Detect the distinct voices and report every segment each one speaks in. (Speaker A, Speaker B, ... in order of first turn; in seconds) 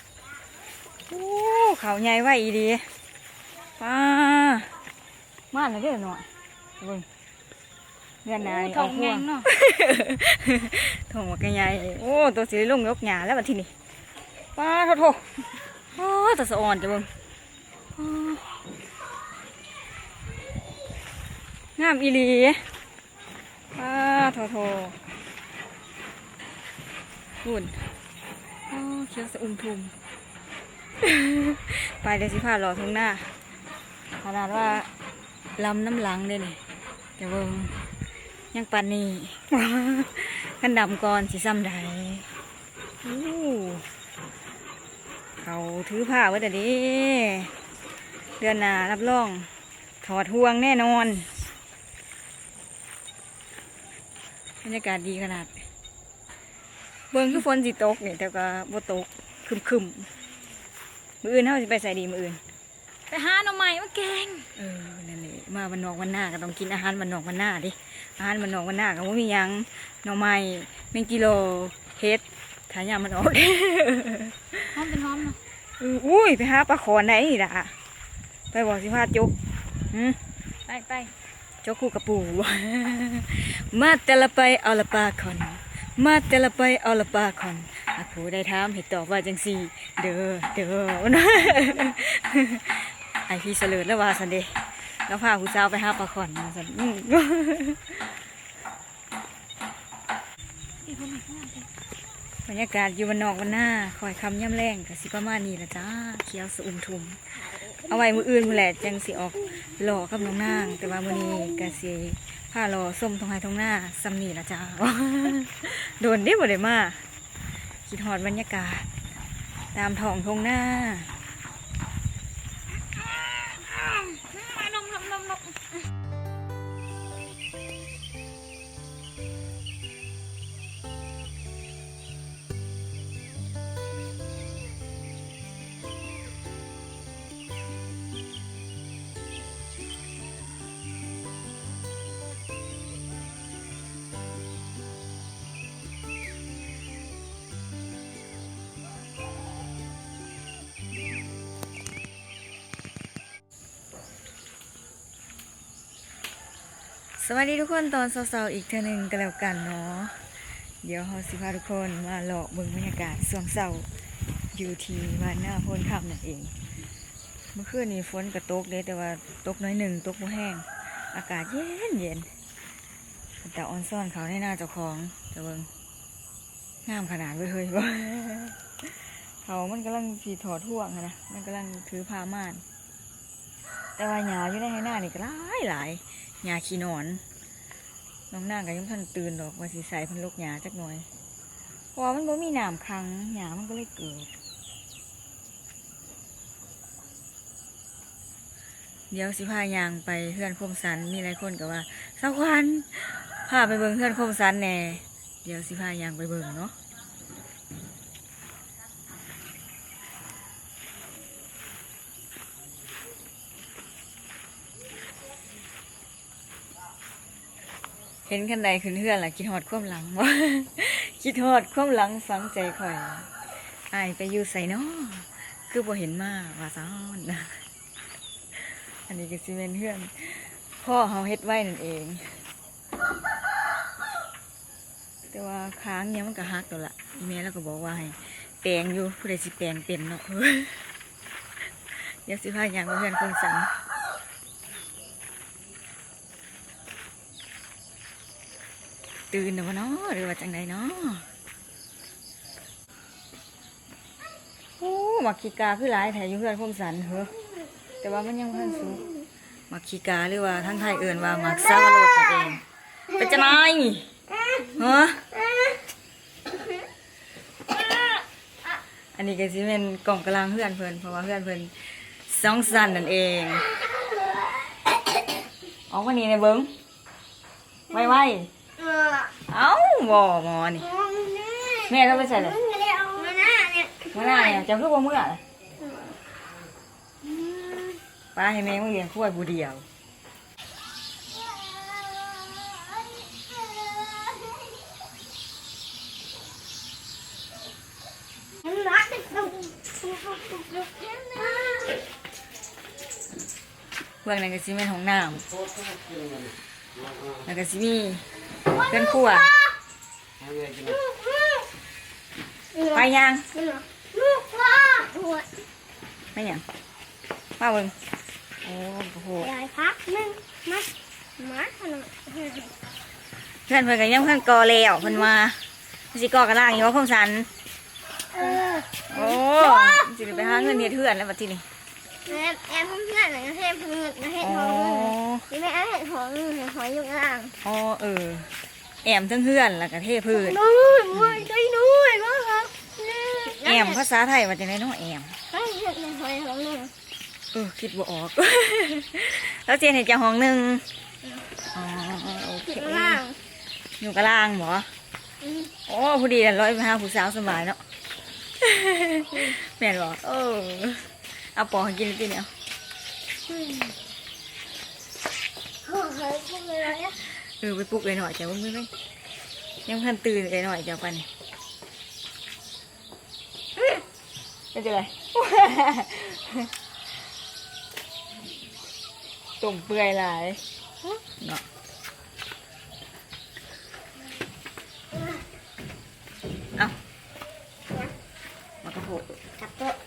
Speaker A: 1.1-2.9, 3.8-4.7, 5.5-6.3, 6.8-7.0, 8.2-13.7, 14.6-15.3, 15.9-17.1, 17.9-18.4, 21.8-22.7, 23.7-25.0, 27.4-27.9, 28.7-29.9, 31.0-33.3, 34.2-34.9, 35.6-36.6, 37.2-37.9, 38.5-42.3, 43.0-43.9, 45.4-47.5, 48.4-49.5, 50.0-51.3, 54.6-55.5, 57.1-60.1, 61.2-62.4, 64.5-74.8, 75.8-77.7, 78.5-79.3, 79.9-80.2, 81.6-98.2, 102.4-107.2, 107.8-117.0, 117.8-118.9, 119.7-121.1, 157.2-160.2, 160.8-163.9, 164.5-166.5, 167.5-172.3, 173.4-175.7, 176.8-178.9, 179.4-182.6, 184.0-187.2, 188.3-191.1, 191.9-194.3, 199.1-206.7, 218.3-223.3, 223.9-227.6, 228.5-232.4, 235.3-240.9, 241.9-243.8, 249.3-251.2, 254.8-257.3, 258.0-259.1, 259.7-264.1, 264.6-265.3, 269.1-273.7, 275.9-276.7, 277.9-278.5, 279.5-280.9, 281.9-282.6, 284.1-285.4, 288.3-289.8, 304.2-305.4, 307.4-308.2, 308.8-309.5, 312.9-313.5, 316.3-316.6, 317.6-317.9, 318.6-319.5, 323.7-325.6, 326.1-327.5, 329.1-331.6, 334.4-335.4, 337.6-338.5, 339.0-341.5, 343.6-345.3, 347.5-350.8, 351.7-353.2, 354.0-354.9, 355.9-357.8, 358.6-362.5, 367.2-368.9, 369.9-371.3, 374.7-376.7, 379.6-381.6, 388.8-389.2
Speaker B: 8.4-9.5, 63.1-64.5, 74.7-75.4, 80.7-81.1, 100.8-101.7, 123.1-125.5
Speaker C: 273.9-274.8, 278.8-279.3, 280.8-284.6, 285.8-286.2, 287.2-288.0, 291.3-294.7, 298.6-302.1, 308.6-309.7, 310.7-311.7, 312.7-315.5, 319.4-322.7, 328.3-330.9, 332.2-337.6, 340.3-344.0, 345.5-346.9, 352.7-353.4, 355.4-355.7, 363.5-363.9, 365.8-367.2, 389.6-390.0